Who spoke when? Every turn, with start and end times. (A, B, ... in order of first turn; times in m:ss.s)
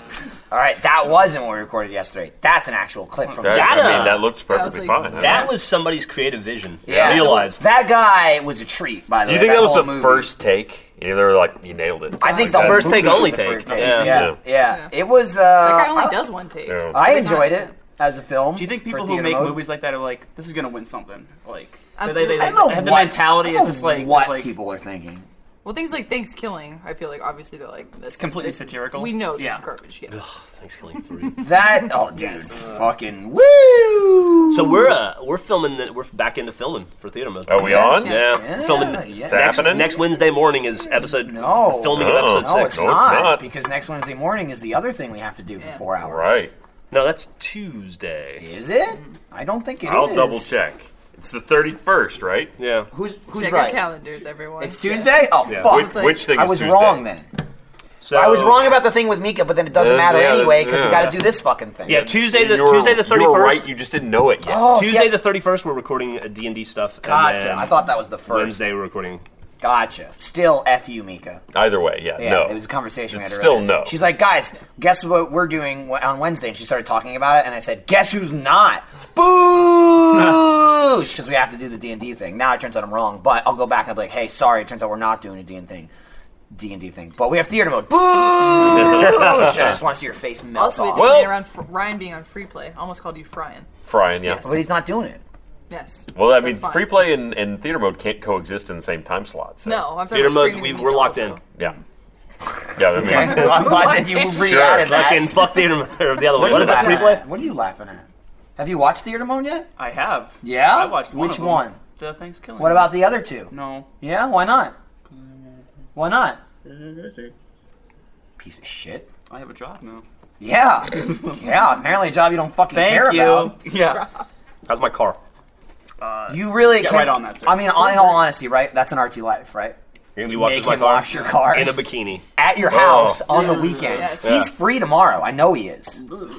0:00.5-0:04.2 A
0:03.4-0:05.6 B
0:03.5-0:04.3 C
0:04.4-0:05.3 D
0:05.2-0:07.6 C
0:06.8-0:10.3 A
0:06.9-0:07.3 B
0:07.0-0:07.6 D
0:09.2-0:14.4 B
0:12.2-0:16.3 A
0:12.4-0:14.3 C
0:14.6-0:14.9 D
0:15.6-0:17.7 D
0:16.6-0:17.0 B
0:16.9-0:19.7 A
0:18.5-0:24.5 E
0:22.0-0:22.8 D
0:22.3-0:25.2 A
0:25.6-0:30.2 D
0:28.1-0:29.6 E
0:30.1-0:31.5 C
0:31.4-0:34.9 A
0:31.7-0:32.4 D
0:34.5-0:43.0 C
0:37.4-0:38.2 B
0:37.6-0:39.9 A
0:38.1-0:38.4 D
0:39.2-0:40.0 B
0:40.9-0:46.4 A
0:41.9-0:43.4 B
0:46.0-0:46.5 B
0:46.9-0:48.4 C
0:48.4-0:50.5 A
0:49.8-0:52.5 B
0:52.6-0:52.9 C
0:52.9-0:53.8 A
0:53.3-0:55.2 D
0:54.6-0:57.3 A
0:55.4-0:55.8 C
0:55.6-0:57.0 B
0:55.7-0:56.1 D
0:58.0-0:58.8 C
0:58.1-1:02.1 A
0:59.7-1:01.3 B
1:01.8-1:03.7 C
1:01.9-1:04.6 B
1:04.4-1:05.2 A
1:04.7-1:07.7 C
1:07.0-1:08.6 A
1:08.3-1:09.2 C
1:09.6-1:11.4 A
1:11.5-1:13.9 B
1:12.2-1:25.9 A
1:26.5-1:31.2 A
1:28.7-1:29.7 B
1:30.6-1:33.7 D
1:31.0-1:31.4 B
1:33.8-1:34.6 B
1:34.3-1:34.6 D
1:34.4-1:35.2 A
1:35.7-1:37.0 D
1:36.1-1:39.9 B
1:39.6-1:41.8 D
1:40.1-1:41.4 C
1:42.5-1:45.5 A
1:42.8-1:45.0 B
1:43.3-1:44.5 D
1:44.8-1:47.2 C
1:46.3-1:48.0 A
1:46.4-1:47.1 B
1:46.6-1:46.8 D
1:48.6-1:49.7 A
1:49.8-1:53.9 E
1:50.4-1:51.8 A
1:52.6-1:54.7 A
1:55.1-1:55.6 E
1:56.0-1:56.4 A
1:56.6-1:57.3 E
1:58.4-1:59.1 A
1:59.3-2:00.0 E
2:00.4-2:03.6 A
2:02.7-2:04.0 E
2:03.9-2:04.2 D
2:04.7-2:05.2 C
2:06.0-2:08.2 E
2:06.3-2:09.8 A
2:10.2-2:12.2 C
2:10.3-2:11.8 A
2:12.4-2:16.0 A
2:12.7-2:13.5 B
2:13.8-2:14.4 D
2:14.2-2:14.5 C